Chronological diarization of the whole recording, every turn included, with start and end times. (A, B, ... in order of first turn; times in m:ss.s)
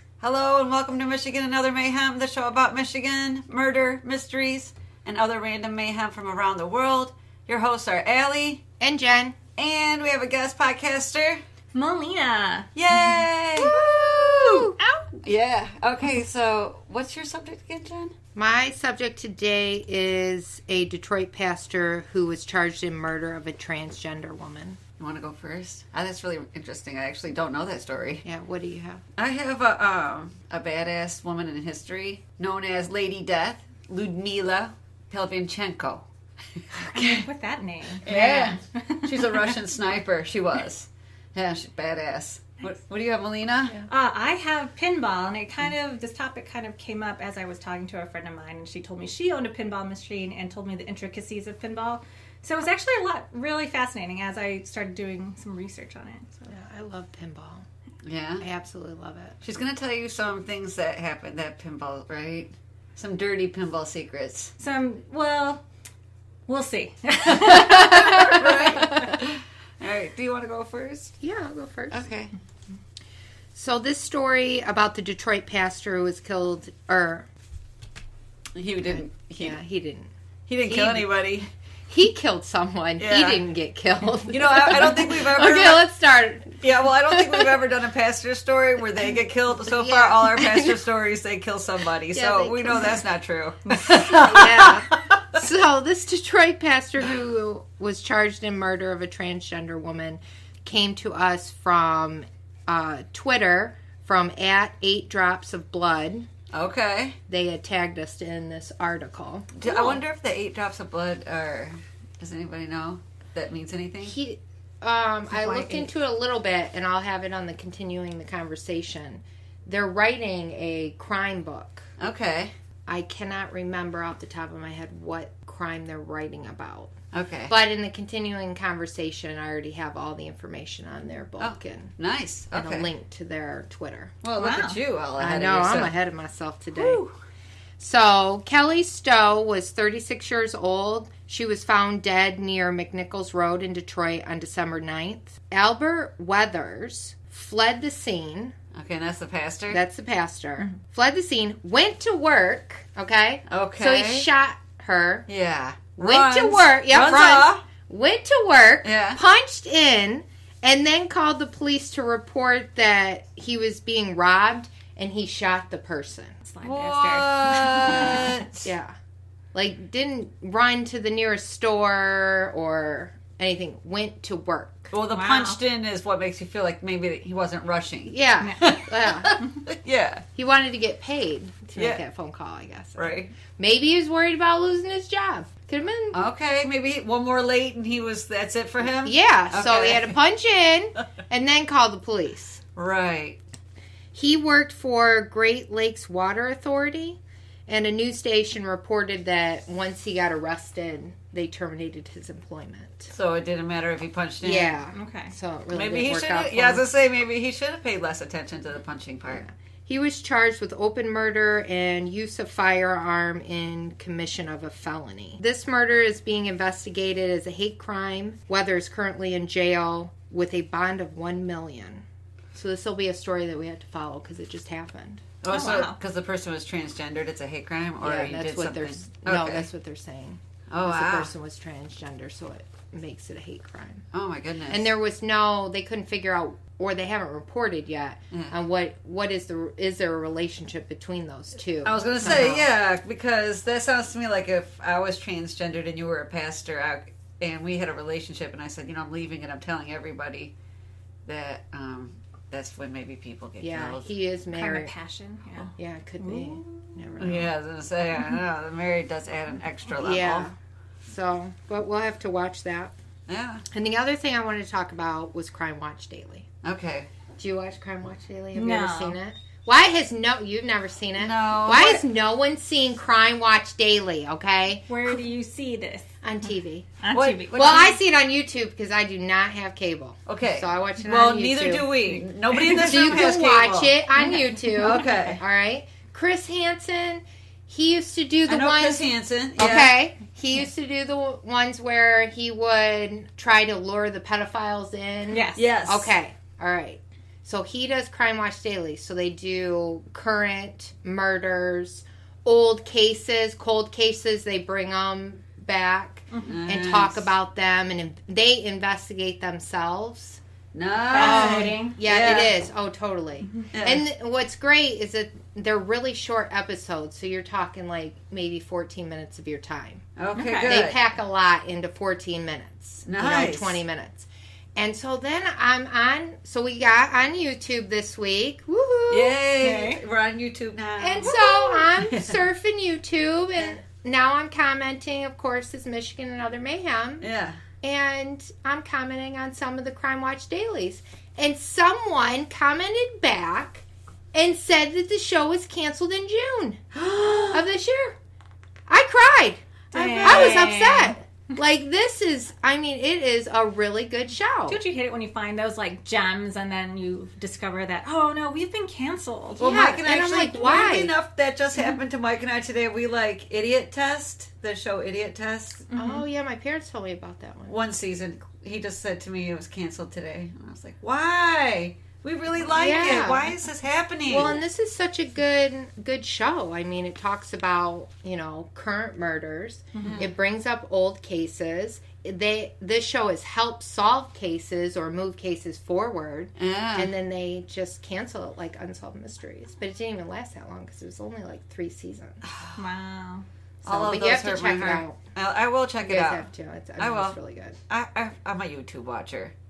0:00.2-0:08.6 A
0:08.8-0:09.4 B
0:09.6-0:11.4 A
0:11.7-0:12.7 C
0:12.8-0:18.1 A
0:13.6-0:15.1 B
0:18.4-0:24.8 B
0:25.0-0:28.2 A
0:28.2-0:29.0 B
0:29.2-0:36.0 A
0:36.6-0:37.2 A
0:36.9-0:39.5 C
0:38.0-0:43.8 A
0:38.1-0:38.6 B
0:43.9-0:56.5 C
0:56.5-0:57.6 B
0:58.0-0:58.4 A
0:58.4-0:59.4 B
0:59.4-1:04.5 A
1:04.6-1:05.6 C
1:06.5-1:09.1 C
1:07.4-1:11.1 A
1:11.2-1:12.0 B
1:11.9-1:12.3 A
1:13.5-1:17.2 B
1:18.6-1:19.6 A
1:19.4-1:20.1 B
1:20.5-1:21.5 A
1:20.7-1:21.1 B
1:21.9-1:27.5 B
1:23.0-1:23.4 A
1:24.3-1:25.8 A
1:26.6-1:35.4 A
1:29.7-1:30.8 B
1:32.1-1:33.0 B
1:33.9-1:46.3 B
1:46.5-1:47.2 A
1:47.3-1:49.9 B
1:49.6-1:54.2 A
1:54.0-2:01.8 B
1:55.3-1:55.9 C
2:02.0-2:02.5 A
2:02.9-2:06.9 B
2:07.1-2:07.5 A
2:07.5-2:11.9 B
2:11.4-2:12.9 A
2:12.5-2:14.1 B
2:14.2-2:15.9 A
2:14.4-2:14.8 C
2:15.2-2:17.0 B
2:16.8-2:17.1 C
2:17.8-2:28.5 B
2:28.7-2:29.8 A
2:29.7-2:35.2 B
2:33.5-2:34.3 A
2:35.3-2:37.6 A
2:36.0-2:46.4 B
2:38.8-2:39.2 A
2:46.4-2:48.4 C
2:46.6-2:48.7 A
2:48.6-2:48.9 B
2:49.5-2:54.9 B
2:54.9-3:00.2 A
2:55.1-2:55.6 C
2:58.1-2:59.4 B
3:00.4-3:06.2 B
3:01.8-3:02.0 A
3:03.0-3:03.3 A
3:06.1-3:10.2 A
3:09.0-3:12.6 B
3:12.8-3:13.4 A
3:14.1-3:23.1 B
3:23.1-3:24.8 A
3:24.4-3:26.8 B
3:24.9-3:25.3 C
3:25.7-3:29.4 A
3:29.3-3:45.2 B
3:45.4-3:49.7 A
3:45.5-3:46.0 C
3:48.0-3:54.0 B
3:50.7-3:51.3 A
3:54.1-3:54.8 A
3:54.7-4:02.7 B
4:01.8-4:10.5 A
4:11.2-4:14.1 A
4:13.6-4:14.9 B
4:14.5-4:15.7 C
4:15.8-4:17.5 B
4:16.3-4:16.6 C
4:17.2-4:20.5 A
4:20.0-4:20.5 B
4:21.1-4:22.9 B
4:23.3-4:23.6 A
4:23.7-4:26.4 B
4:26.6-4:27.1 A
4:27.4-4:35.2 B
4:28.6-4:29.2 C
4:31.2-4:32.0 A
4:34.9-4:36.1 C
4:36.2-4:36.9 B
4:37.0-4:37.9 C
4:37.1-4:38.0 A
4:37.6-5:10.4 B
4:40.3-4:43.9 A
4:44.2-4:45.1 C
4:44.8-4:45.4 A
4:48.5-4:49.9 A
4:55.3-4:55.6 C
4:55.6-4:56.1 A
5:06.4-5:07.3 A
5:10.7-5:12.5 A
5:11.1-5:12.0 C
5:11.1-5:20.0 B
5:13.7-5:14.0 A
5:20.2-5:21.0 A
5:20.4-5:20.8 C
5:20.6-5:29.4 B
5:23.1-5:23.8 A
5:29.1-5:32.4 A
5:29.6-5:30.0 C
5:31.0-5:37.2 B
5:37.2-5:37.6 A
5:37.8-5:46.9 B
5:46.9-5:47.6 A
5:47.5-5:48.2 B
5:48.9-5:49.6 B
5:49.9-5:50.8 A
5:49.9-5:51.2 C
5:50.2-5:54.8 B
5:54.7-5:59.6 C
5:59.6-6:01.1 B
5:59.6-6:05.8 A
6:05.9-6:06.2 C
6:06.0-6:07.7 B
6:07.7-6:14.6 A
6:12.7-6:13.5 B
6:14.3-6:32.4 B
6:20.0-6:20.2 C
6:20.0-6:20.3 A
6:26.6-6:27.1 A
6:32.4-6:32.8 A
6:32.8-6:33.4 C
6:33.8-6:35.2 B
6:33.8-6:36.4 A
6:36.0-6:37.8 B
6:37.0-6:37.4 A
6:37.9-6:39.5 A